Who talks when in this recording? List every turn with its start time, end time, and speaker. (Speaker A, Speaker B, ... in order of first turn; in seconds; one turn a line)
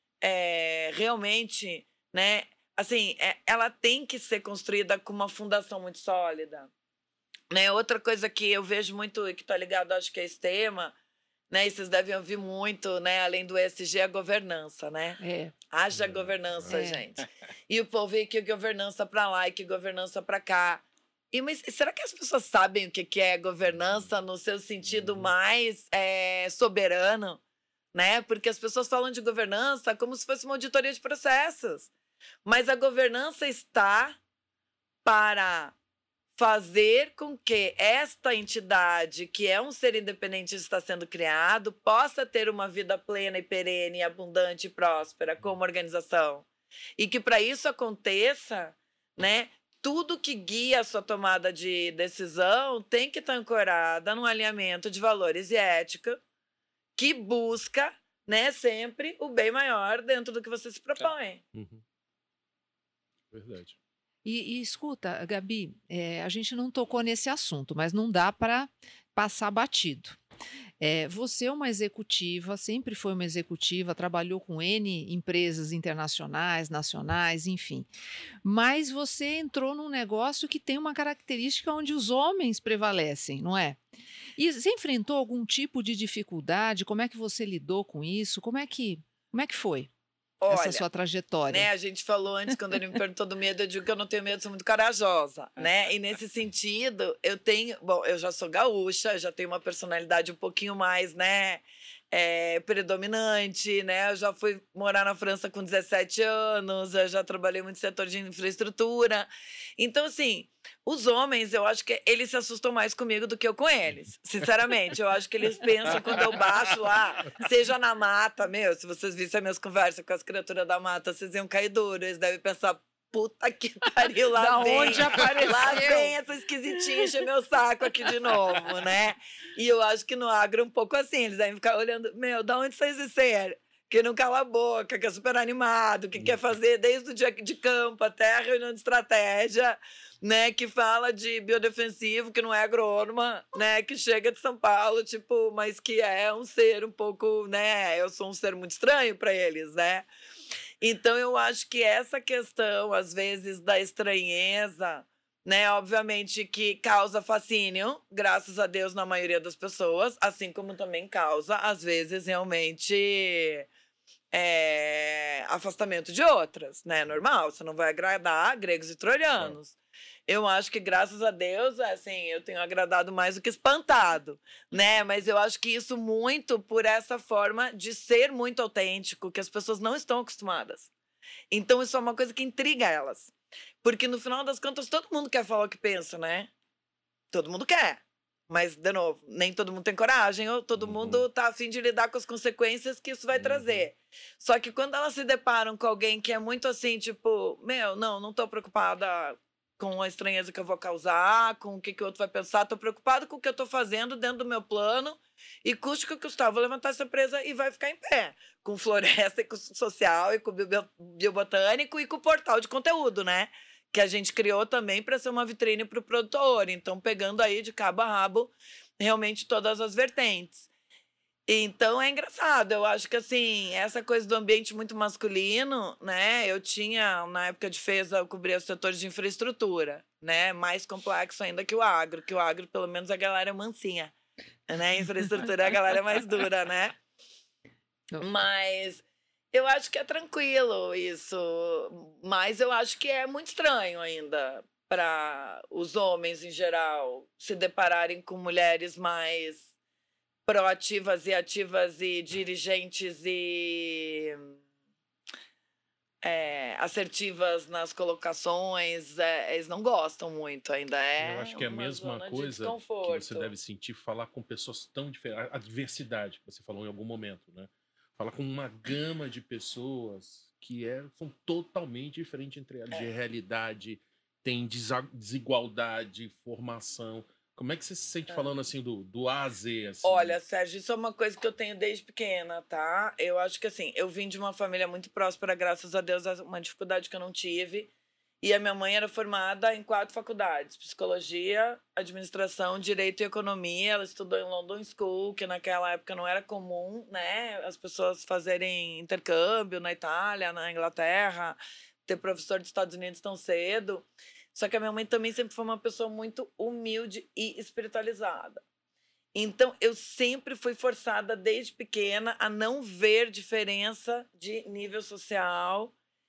Speaker A: 0.2-6.7
Speaker A: 7.5-10.9
Speaker A: 11.5-15.2
Speaker B: 15.2-15.5
Speaker A: 15.7-27.4
Speaker C: 15.9-16.8
Speaker B: 16.7-17.0
Speaker C: 23.6-24.1
Speaker C: 24.8-25.3
Speaker A: 27.9-31.9
Speaker A: 32.4-34.2
Speaker A: 35.0-35.7
Speaker A: 36.4-46.5
Speaker A: 47.0-56.2
Speaker A: 57.0-61.4
Speaker C: 61.5-61.8
Speaker C: 63.3-63.7
Speaker B: 64.2-70.2
Speaker B: 70.8-77.9
Speaker B: 78.4-83.8
Speaker B: 84.4-89.9
Speaker A: 90.4-90.8
Speaker B: 90.5-91.7
Speaker A: 91.5-150.1
Speaker B: 124.3-126.2
Speaker A: 150.8-163.7
Speaker A: 164.3-180.9
Speaker A: 181.5-186.5
Speaker A: 187.3-220.7
Speaker C: 190.8-191.2
Speaker C: 193.3-193.9
Speaker A: 221.5-234.1
Speaker A: 234.7-236.9
Speaker A: 238.2-249.7
Speaker A: 250.4-254.5
Speaker A: 256.2-263.5
Speaker C: 261.2-280.4
Speaker A: 280.0-287.9
Speaker A: 288.4-308.6
Speaker A: 309.3-315.9